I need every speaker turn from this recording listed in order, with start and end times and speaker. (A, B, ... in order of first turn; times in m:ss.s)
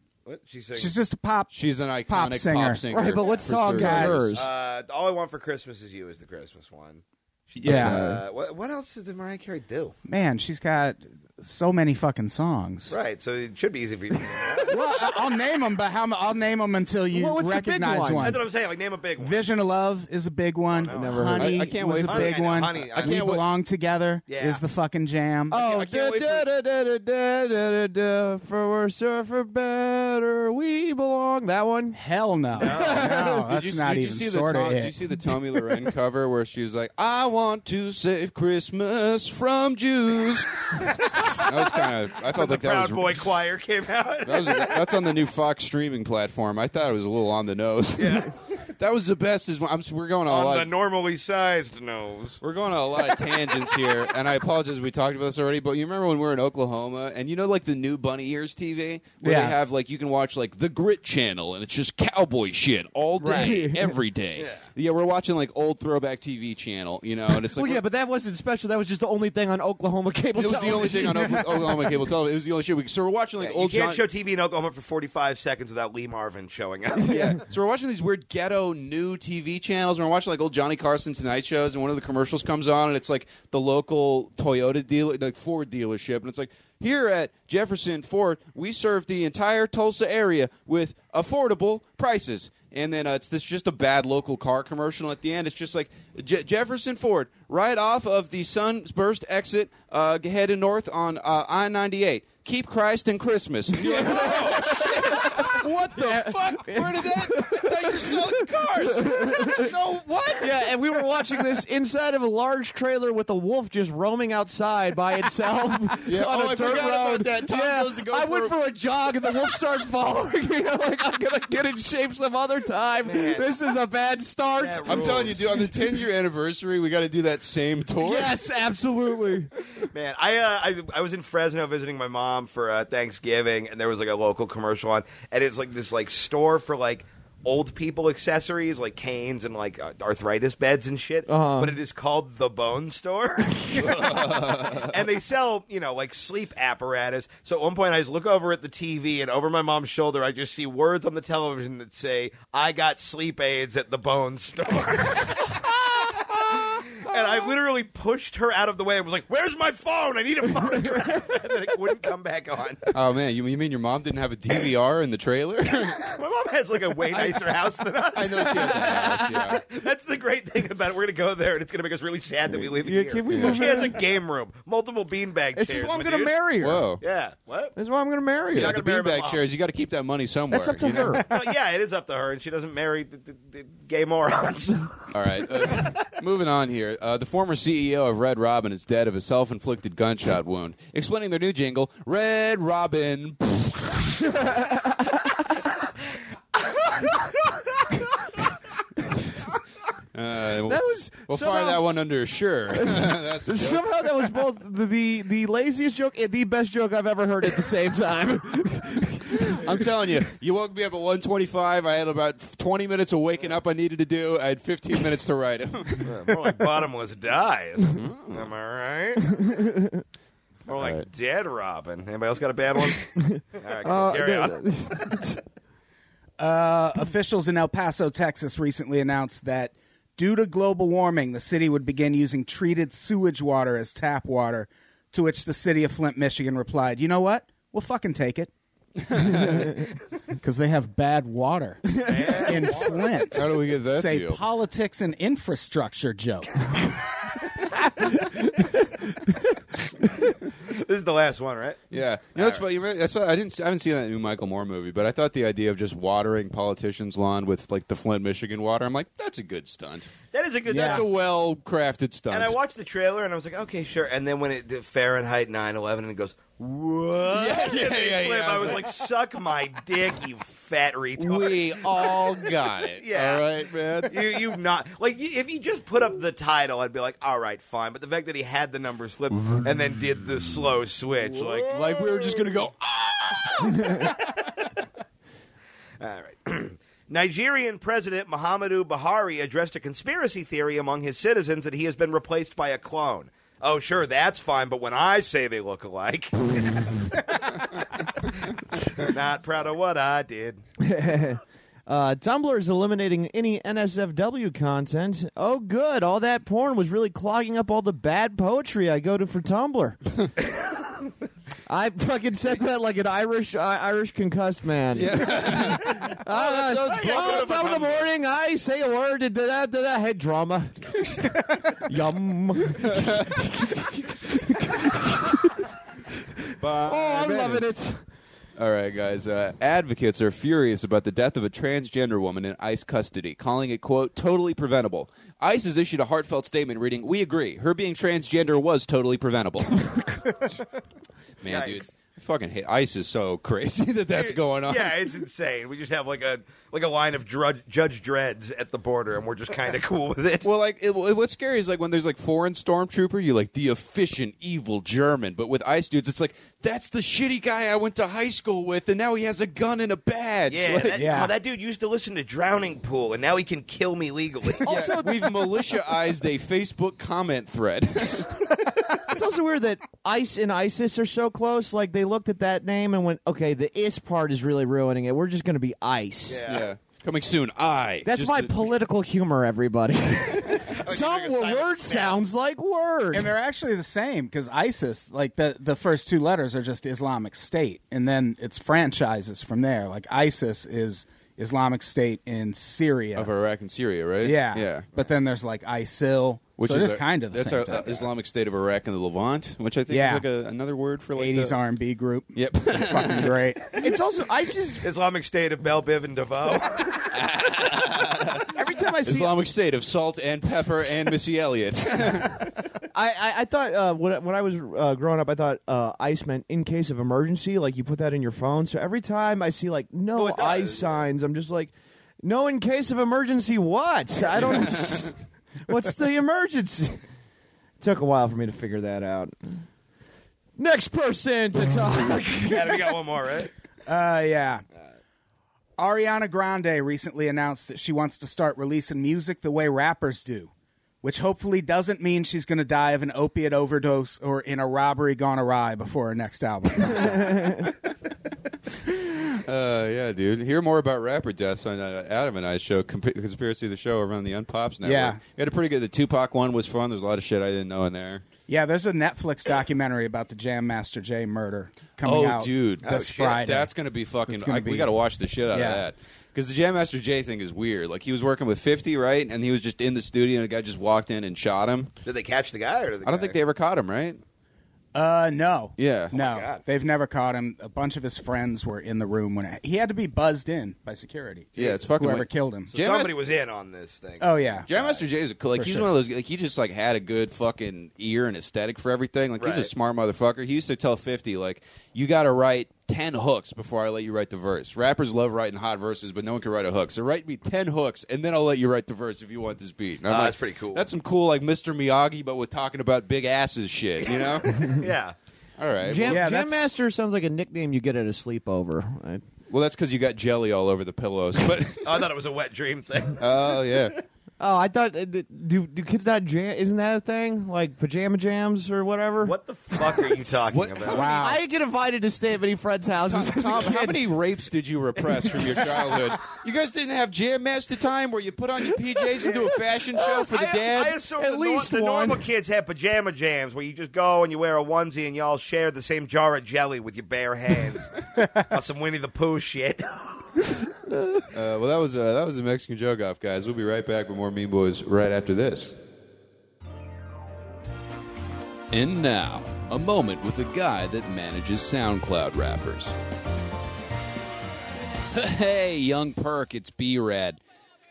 0:00.2-0:00.9 A
0:00.8-0:01.5 B
0:01.5-0:04.3 C
0:02.1-0:02.8 B
0:02.9-0:04.5 D
0:03.6-0:04.2 B
0:04.3-0:09.9 A
0:07.6-0:08.0 B
0:07.6-0:08.2 D
0:10.1-0:13.0 B
0:12.9-0:14.8 A
0:14.6-0:18.4 B
0:17.1-0:18.4 D
0:18.2-0:19.4 A
0:19.2-0:25.6 B
0:20.7-0:21.2 A
0:20.9-0:21.6 D
0:21.4-0:23.4 C
0:22.0-0:23.2 A
0:24.3-0:24.6 A
0:25.5-0:32.0 D
0:25.5-0:26.5 C
0:31.9-0:34.9 B
0:32.5-0:33.2 A
0:32.6-0:33.4 D
0:33.2-0:43.2 C
0:42.3-0:44.8 A
0:44.2-0:50.7 C
0:48.0-0:48.3 A
0:50.3-0:52.4 A
0:52.4-1:07.8 C
0:59.2-0:59.6 B
1:03.2-1:04.0 D
1:07.3-1:11.9 D
1:10.3-1:14.0 C
1:13.4-1:17.3 A
1:17.0-1:17.4 D
1:17.1-1:50.6 C
1:43.7-1:49.7 D
1:50.4-2:05.6 D
1:56.0-1:58.5 C
2:03.0-2:03.5 A
2:04.6-2:05.4 A
2:04.9-2:08.3 C
2:08.0-2:09.5 D
2:09.9-2:42.9 A
2:21.3-2:21.8 D
2:23.7-2:24.9 C
2:42.9-2:46.0 C
2:46.0-2:56.3 A
2:47.1-2:47.4 C
2:48.1-2:49.6 C
2:48.4-2:49.5 D
2:52.5-2:54.0 D
2:53.3-2:53.6 C
2:55.5-2:56.9 D
2:56.6-2:57.0 C
2:57.0-2:57.8 A
2:57.8-2:58.8 D
2:58.5-3:01.2 C
2:58.5-2:59.4 A
3:00.5-3:01.3 D
3:01.3-3:05.0 A
3:05.1-3:14.3 C
3:14.4-3:15.4 D
3:20.1-3:24.3 C
3:20.6-3:21.8 D
3:22.7-3:29.8 D
3:29.3-3:36.0 C
3:36.0-3:39.4 A
3:37.9-3:38.4 C
3:39.4-3:40.0 D
3:40.7-3:45.2 A
3:40.8-3:41.0 C
3:43.2-3:45.4 D
3:46.4-3:58.5 B
3:59.1-3:59.7 C
3:59.1-4:06.7 B
4:02.0-4:03.3 A
4:02.1-4:02.4 D
4:03.3-4:04.4 C
4:10.5-4:11.8 A
4:11.9-4:20.1 C
4:12.3-4:12.6 A
4:20.3-4:21.1 A
4:20.7-4:21.0 B
4:20.7-4:22.6 C
4:22.3-4:32.4 A
4:27.3-4:28.9 C
4:31.2-4:34.2 C
4:33.0-4:33.5 A
4:34.0-4:42.4 A
4:41.3-4:44.1 C
4:46.0-4:57.6 A
4:58.8-5:00.6 A
5:00.8-5:10.0 D
5:11.7-5:28.0 D
5:14.9-5:17.6 C
5:16.3-5:18.1 A
5:22.8-5:23.4 C
5:26.6-5:27.6 C
5:28.6-5:40.0 C
5:41.4-5:44.9 C
5:41.4-5:41.8 A
5:44.1-5:50.5 A
5:50.4-6:01.0 C
6:00.5-6:04.7 A
6:00.9-6:01.3 B
6:04.6-6:05.7 D
6:04.7-6:08.4 C
6:09.0-6:16.4 D
6:16.3-6:16.7 A
6:16.5-6:18.7 C
6:18.0-6:23.3 D
6:20.5-6:22.2 A
6:23.1-6:33.3 B
6:33.1-6:34.8 C
6:34.2-6:38.1 B
6:36.6-6:41.6 C
6:39.9-6:40.2 B
6:41.1-6:43.8 B
6:42.3-6:43.4 C
6:43.8-6:44.9 D
6:44.8-6:47.1 A
6:47.1-6:48.5 C
6:48.5-6:49.3 D
6:49.0-6:52.5 C
6:52.9-7:05.1 D
7:00.1-7:01.1 A
7:04.6-7:05.1 C
7:05.6-7:07.0 D
7:07.8-7:09.6 D
7:10.6-7:13.0 D
7:12.4-7:13.5 A
7:13.8-7:14.6 B
7:15.8-7:20.5 B
7:21.0-7:27.7 B
7:27.3-7:27.6 D
7:28.8-7:38.2 C
7:34.8-7:35.2 B
7:38.5-7:43.7 B
7:42.0-7:51.9 C
7:42.8-7:43.4 A
7:44.3-7:44.9 B
7:45.5-7:45.8 B
7:52.0-7:53.4 A
7:53.0-7:54.2 C
7:54.9-8:02.7 B
7:55.8-7:56.1 C
7:56.1-7:56.6 A
8:01.6-8:03.1 C
8:02.7-8:05.0 A
8:04.2-8:04.7 B
8:04.7-8:24.6 C
8:05.6-8:05.9 B
8:09.4-8:09.7 A
8:20.1-8:20.9 A
8:24.1-8:25.1 A
8:25.6-8:26.2 C
8:25.8-8:29.2 D
8:26.0-8:26.7 B
8:29.5-8:32.0 C
8:31.8-8:33.8 A
8:33.2-8:34.0 C
8:34.4-8:40.3 D
8:39.2-8:41.2 A
8:40.5-8:41.0 C
8:40.9-8:41.4 B
8:40.9-8:44.0 D
8:43.1-8:51.0 C
8:49.2-9:00.2 A
8:51.1-8:52.2 D
9:00.9-9:01.2 D
9:01.3-9:05.7 C
9:08.7-9:12.9 C
9:15.1-9:17.4 C